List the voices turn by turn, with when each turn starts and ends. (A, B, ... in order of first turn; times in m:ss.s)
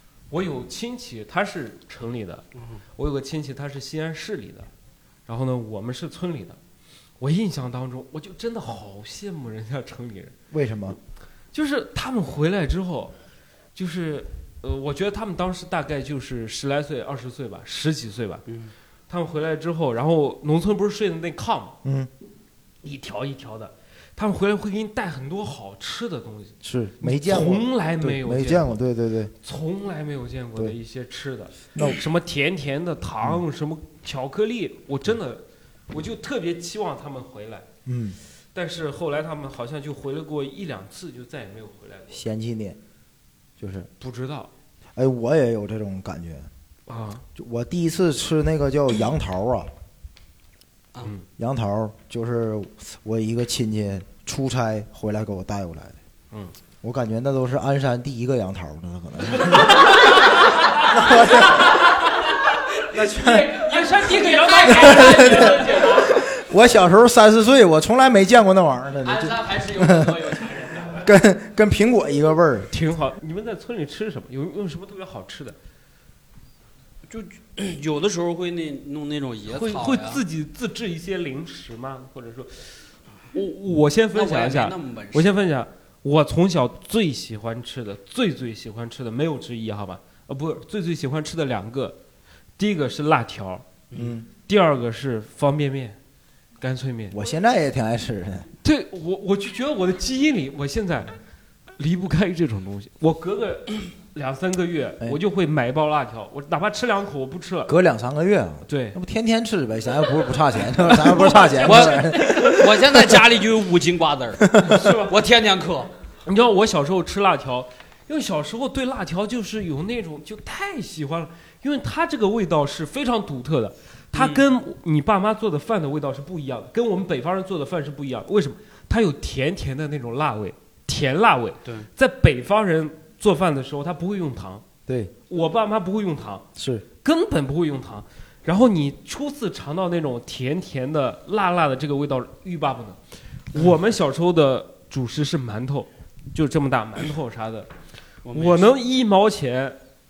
0:00.3-0:02.4 A
0:02.6-0:02.8 B
0:03.0-0:04.7 A
0:05.3-0:06.6 A
0:07.2-0:10.4 A
0:10.5-0:11.0 C
0:11.5-0:13.1 A
0:13.8-0:18.4 A
0:18.5-0:18.7 B
0:19.1-0:21.8 A
0:21.8-0:22.1 C
0:22.8-0:28.8 A
0:26.6-0:29.3 C
0:29.4-0:37.7 A
0:37.9-0:38.2 C
0:38.5-0:42.2 A
0:42.1-0:42.8 C
0:43.6-0:43.9 C
0:44.0-0:44.5 A
0:45.0-0:46.5 C
0:46.9-0:47.2 A
0:47.4-0:49.7 C
0:51.4-0:56.0 C
0:56.8-1:00.3 C
1:00.8-1:01.9 C
1:02.9-1:03.6 C
1:03.0-1:06.2 B
1:03.6-1:06.0 A
1:04.7-1:10.3 C
1:09.0-1:11.0 B
1:11.0-1:12.7 C
1:12.7-1:15.6 A
1:17.1-1:20.2 B
1:19.5-1:32.0 A
1:24.1-1:25.3 B
1:32.6-1:33.6 A
1:34.0-1:34.3 C
1:34.5-1:36.0 A
1:36.6-1:37.2 A
1:37.1-1:38.5 C
1:38.6-1:41.1 A
1:41.8-1:47.7 A
1:47.7-1:53.2 C
1:48.7-1:49.0 A
1:50.8-1:52.6 A
1:51.6-1:54.5 B
1:54.4-1:54.9 C
1:54.6-1:55.2 A
1:55.1-1:55.9 B
1:56.3-2:14.6 A
2:04.1-2:04.4 B
2:14.9-2:15.1 C
2:15.3-2:16.5 A
2:16.6-2:16.8 C
2:17.0-2:23.0 A
2:23.5-2:27.7 A
2:28.2-2:28.8 B
2:28.3-2:29.8 A